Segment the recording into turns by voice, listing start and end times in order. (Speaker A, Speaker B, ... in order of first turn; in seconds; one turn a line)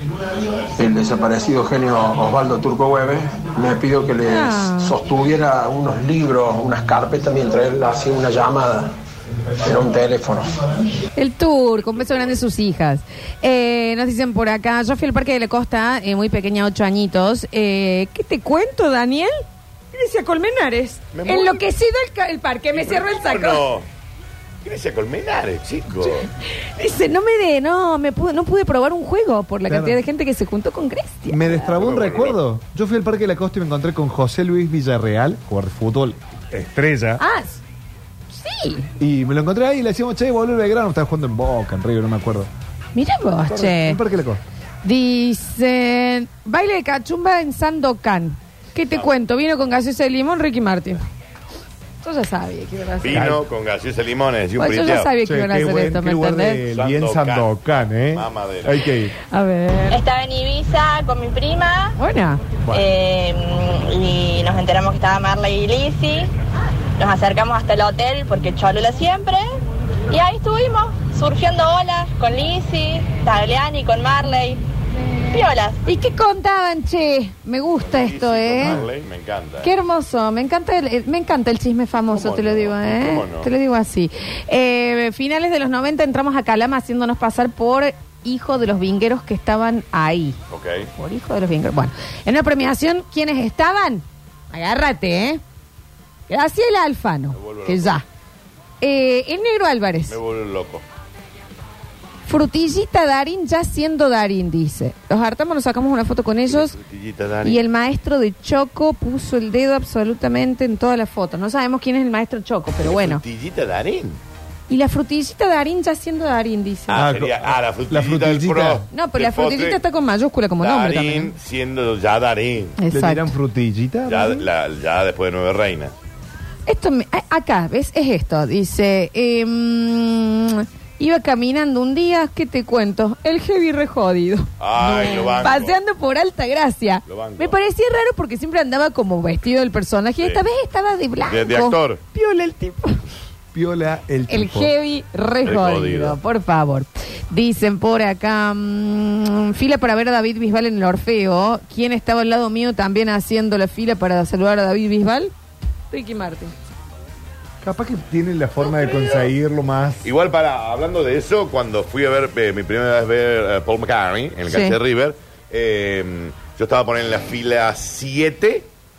Speaker A: 0.8-8.9
Speaker B: 4.3-5.0
Speaker A: 9.6-10.6
Speaker B: 11.2-19.3
Speaker C: 11.8-12.4
Speaker B: 19.9-23.7
Speaker C: 21.1-21.7
Speaker C: 22.7-23.9
Speaker C: 24.6-26.3
Speaker B: 26.0-31.7
Speaker D: 29.7-30.0
Speaker D: 31.3-37.2
Speaker C: 31.7-32.4
Speaker B: 37.2-37.6
Speaker B: 38.3-38.9
Speaker D: 39.0-42.5
Speaker B: 42.9-44.0
Speaker D: 43.5-44.4
Speaker B: 44.8-51.0
Speaker C: 48.9-49.2
Speaker B: 52.0-53.4
Speaker C: 53.0-55.2
Speaker D: 53.1-53.4
Speaker B: 54.6-56.6
Speaker D: 55.2-59.1
Speaker C: 56.7-58.8
Speaker B: 59.3-60.0
Speaker E: 59.9-62.0
Speaker B: 62.0-62.4
Speaker E: 62.7-66.3
Speaker E: 67.0-69.4
Speaker E: 70.1-74.6
Speaker E: 75.3-75.8
Speaker B: 75.8-78.8
Speaker C: 77.8-79.7
Speaker B: 79.6-90.4
Speaker C: 82.1-83.5
Speaker C: 90.5-90.9
Speaker B: 91.0-95.4
Speaker B: 96.3-98.0
Speaker C: 97.3-98.0
Speaker B: 98.8-100.2
Speaker C: 100.1-100.8
Speaker B: 102.3-106.8
Speaker C: 106.5-107.7
Speaker B: 107.5-113.2
Speaker C: 112.8-114.2
Speaker B: 114.7-117.1
Speaker C: 116.9-119.8
Speaker D: 116.9-118.9
Speaker B: 118.9-121.3
Speaker C: 120.6-122.8
Speaker B: 122.8-123.3
Speaker D: 122.9-124.4
Speaker C: 124.1-125.9
Speaker B: 126.7-143.0
Speaker C: 134.6-135.8
Speaker C: 137.0-137.6
Speaker C: 140.2-140.5
Speaker C: 141.2-142.0
Speaker D: 143.5-144.7
Speaker B: 144.3-155.3
Speaker C: 145.4-146.2
Speaker B: 155.9-156.5
Speaker D: 157.6-160.1
Speaker C: 158.6-159.3
Speaker C: 160.0-168.7
Speaker B: 164.5-164.8